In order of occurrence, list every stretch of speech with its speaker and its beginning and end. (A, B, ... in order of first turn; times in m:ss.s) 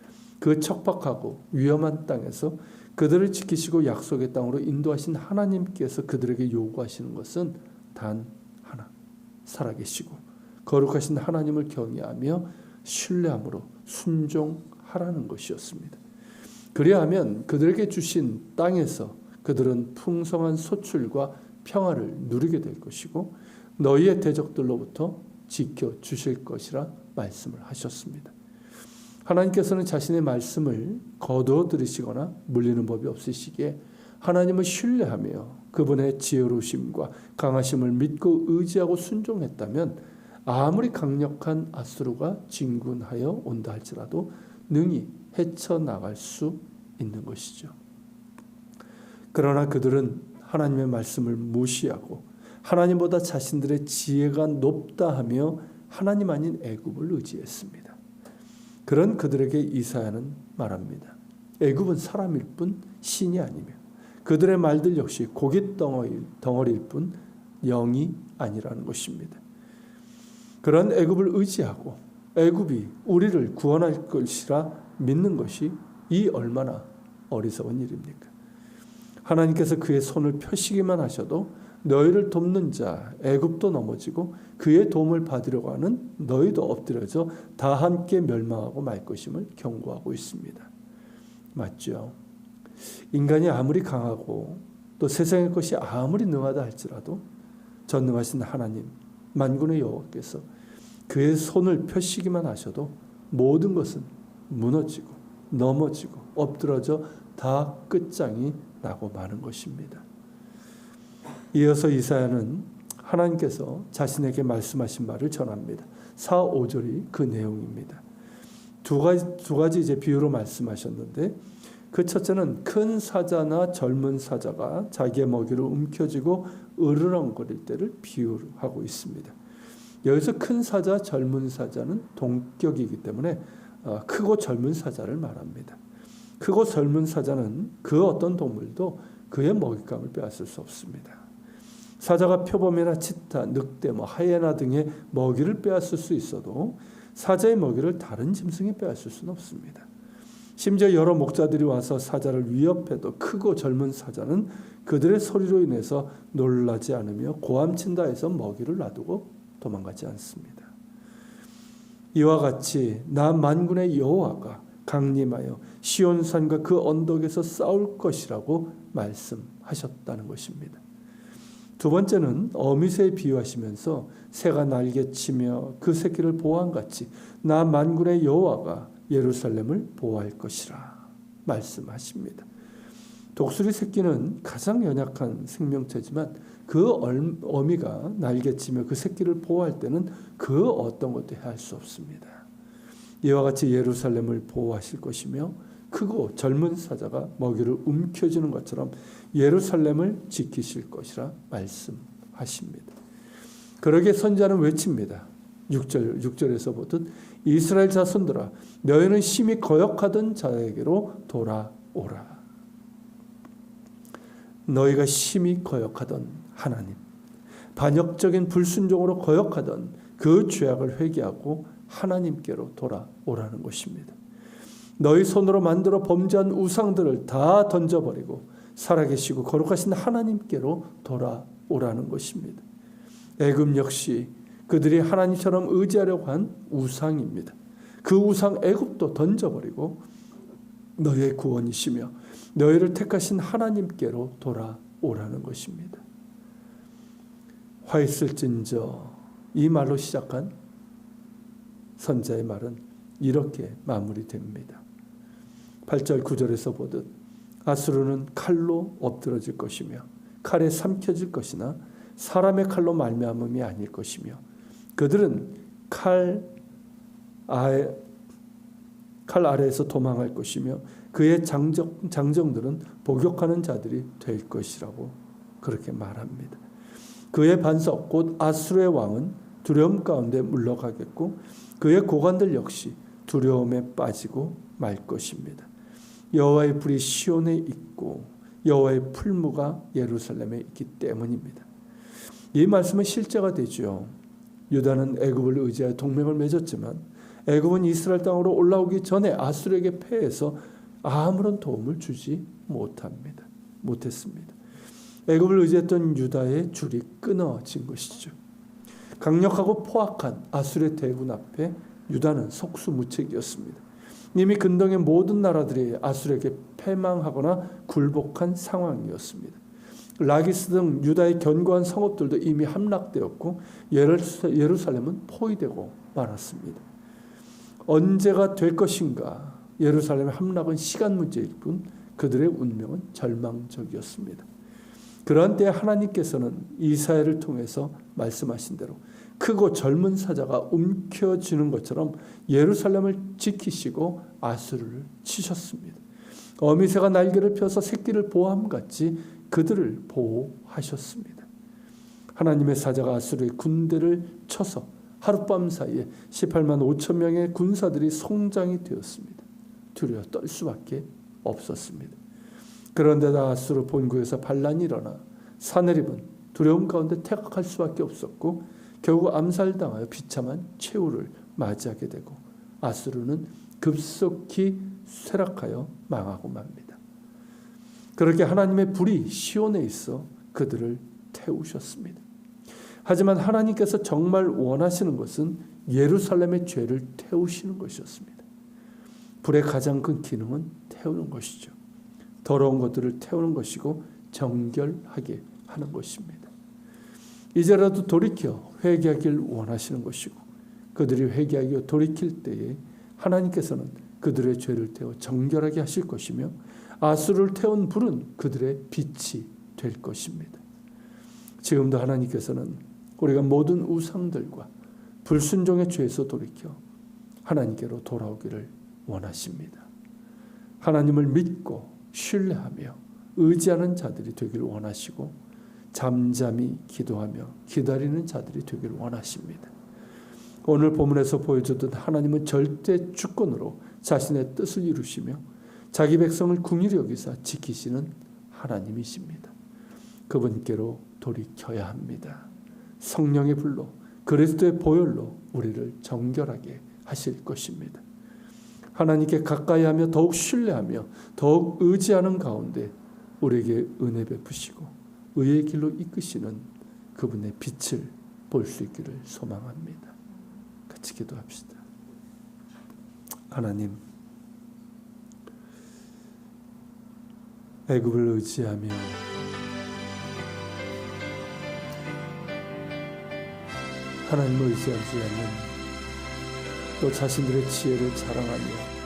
0:00.4-0:08.9 A
0:09.4-0:16.0 A
0:16.7-0:28.3 A
0:29.2-0:47.8 A
0:49.3-0:58.0 A
0:58.9-1:09.4 A
1:10.6-1:18.3 A
1:19.2-1:30.7 A
1:31.6-1:32.2 A
1:33.1-1:37.2 A
1:37.9-1:40.5 A
1:41.1-1:50.0 A
1:51.5-1:58.0 A
1:58.8-2:01.4 A
2:01.9-2:09.4 A
2:10.0-2:15.8 A
2:16.4-2:21.2 A
2:22.0-2:29.9 A
2:30.6-2:40.7 A
2:42.1-2:50.8 A
2:51.8-3:02.5 A
3:03.4-3:12.5 A
3:13.2-3:22.9 A
3:23.8-3:32.4 A
3:34.7-3:37.0 A
3:37.8-3:44.2 A
3:45.0-3:52.6 A
3:53.4-4:00.0 A
4:01.0-4:06.0 A
4:07.8-4:10.5 A
4:12.0-4:14.8 A
4:15.9-4:17.1 A
4:17.6-4:24.4 A
4:25.0-4:26.6 A
4:27.5-4:28.0 A
4:29.3-4:36.6 A
4:37.3-4:45.7 A
4:46.3-4:51.7 A
4:52.5-4:54.2 A
4:54.7-5:04.6 A
5:05.3-5:08.4 A
5:09.2-5:13.8 A
5:14.3-5:19.6 A
5:20.2-5:26.8 A
5:27.9-5:34.5 A
5:35.3-5:46.0 A
5:46.6-5:51.5 A
5:52.4-6:02.2 A
6:03.0-6:17.0 A
6:18.2-6:22.2 A
6:23.0-6:28.4 A
6:29.4-6:31.8 A
6:32.4-6:36.5 A
6:37.5-6:50.6 A
6:51.6-6:54.7 A
6:55.2-6:56.8 A
6:57.4-6:59.9 A
7:00.8-7:05.4 A
7:05.9-7:09.7 A
7:10.6-7:19.5 A
7:20.3-7:22.5 A
7:23.0-7:28.0 A
7:29.0-7:40.2 A
7:40.9-7:41.8 A
7:43.5-7:44.0 A
7:47.9-7:49.2 A
7:54.2-7:55.8 A
7:57.0-7:58.9 A